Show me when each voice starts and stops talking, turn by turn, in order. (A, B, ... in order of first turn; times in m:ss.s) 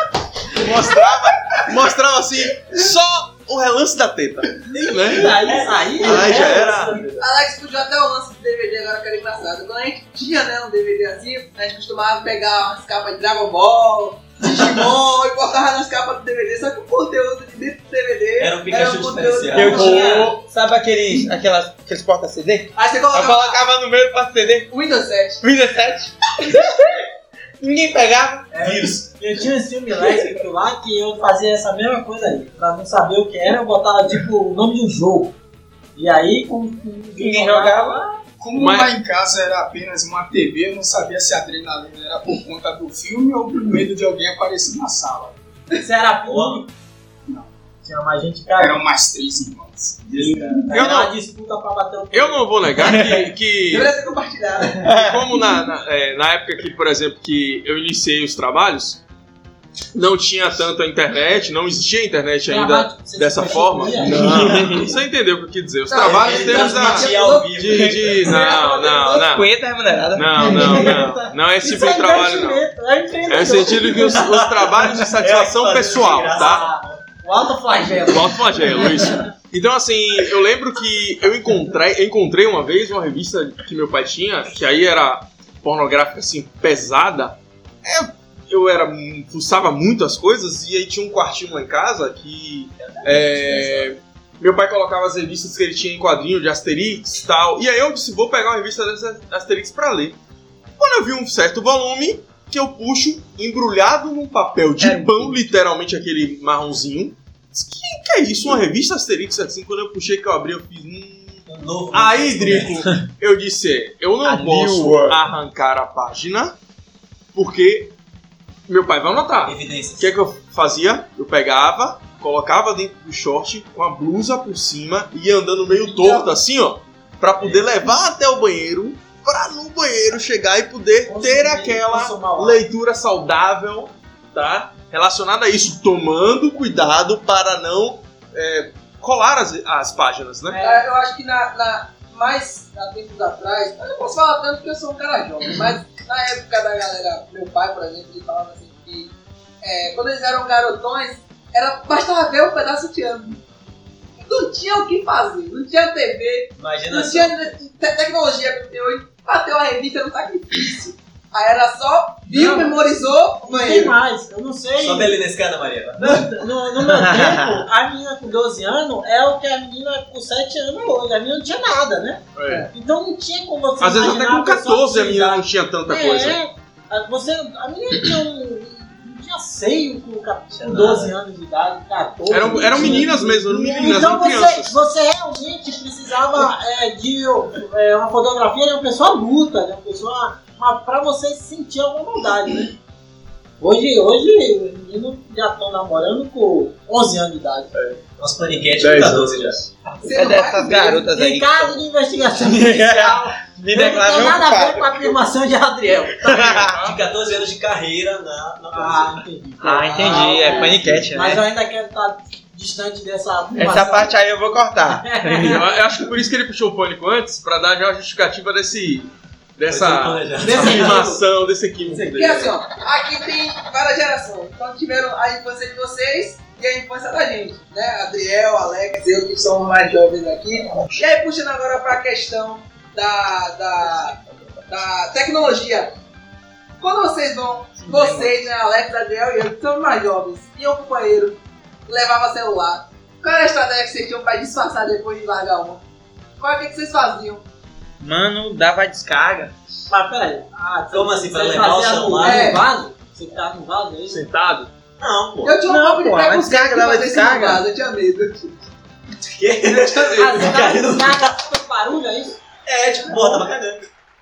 0:00.5-0:05.4 A
0:04.7-0:07.0 B
0:05.1-0:07.3 C
0:06.0-0:07.0 A
0:07.2-0:20.1 D
0:18.4-0:20.0 C
0:19.5-0:24.7 E
0:19.6-0:20.4 A
0:19.6-0:20.3 B
0:22.8-0:23.6 D
0:24.7-0:25.4 D
0:25.4-0:27.0 E
0:27.6-0:28.5 E
0:28.5-0:35.3 B
0:28.6-0:29.1 C
0:36.0-0:38.2 B
0:37.2-0:38.0 E
0:38.4-0:45.4 F
0:38.6-0:38.9 A
0:45.7-0:46.7 B
0:46.2-0:46.6 C
0:47.8-0:48.8 B
0:48.6-0:50.0 F
0:50.0-0:50.6 C
0:50.2-0:52.5 B
0:50.7-0:51.1 A
0:52.1-0:53.9 A
0:52.8-0:53.2 E
0:53.7-0:54.8 D
0:54.8-0:55.5 E
0:54.9-0:59.0 A
1:00.0-1:09.5 A
1:02.5-1:04.5 B
1:04.1-1:04.9 E
1:05.9-1:07.5 D
1:06.0-1:08.4 C
1:08.4-1:09.0 D
1:09.1-1:10.9 E
1:10.1-1:12.6 A
1:10.4-1:14.2 B
1:13.3-1:16.7 A
1:14.1-1:17.0 C
1:16.3-1:19.2 B
1:18.1-1:40.2 A
1:32.8-1:33.9 C
1:40.8-1:56.6 A
1:44.8-1:45.4 E
1:51.5-1:52.8 C
1:54.2-1:55.2 E
1:57.3-1:57.9 A
1:58.7-2:20.6 A
1:59.4-2:00.1 C
2:05.8-2:06.3 B
2:07.4-2:07.7 C
2:11.1-2:12.6 B
2:20.5-2:20.9 B
2:20.6-2:33.4 D
2:34.2-2:44.0 D
2:36.6-2:37.4 C
2:42.3-2:42.8 B
2:43.4-2:45.2 B
2:44.8-2:46.3 C
2:46.0-3:12.7 B
2:47.0-2:47.4 E
2:52.4-2:52.7 A
2:53.8-2:56.4 A
3:00.6-3:01.2 C
3:02.3-3:04.8 A
3:13.6-3:17.7 B
3:18.2-3:19.6 C
3:18.8-3:19.5 A
3:20.0-3:21.0 D
3:20.0-3:21.8 E
3:21.0-3:26.7 B
3:22.4-3:25.2 E
3:26.3-3:26.8 E
3:26.7-3:27.0 A
3:26.8-3:29.2 C
3:28.7-3:34.1 B
3:29.6-3:31.4 E
3:30.1-3:30.6 D
3:30.2-3:31.0 C
3:33.6-3:35.6 E
3:34.9-3:35.6 B
3:35.4-3:42.5 A
3:39.7-3:41.2 C
3:40.4-3:41.1 B
3:41.9-3:42.4 C
3:42.1-3:55.9 D
3:56.8-4:05.8 D
3:57.8-3:58.5 E
4:06.4-4:07.4 D
4:08.0-4:09.5 E
4:09.9-4:14.3 B
4:10.9-4:12.6 C
4:12.2-4:12.6 D
4:14.1-4:14.7 A
4:15.0-4:15.6 C
4:15.4-4:18.5 D
4:15.6-4:17.6 E
4:19.2-4:21.3 C
4:19.7-4:22.4 B
4:22.7-4:23.8 C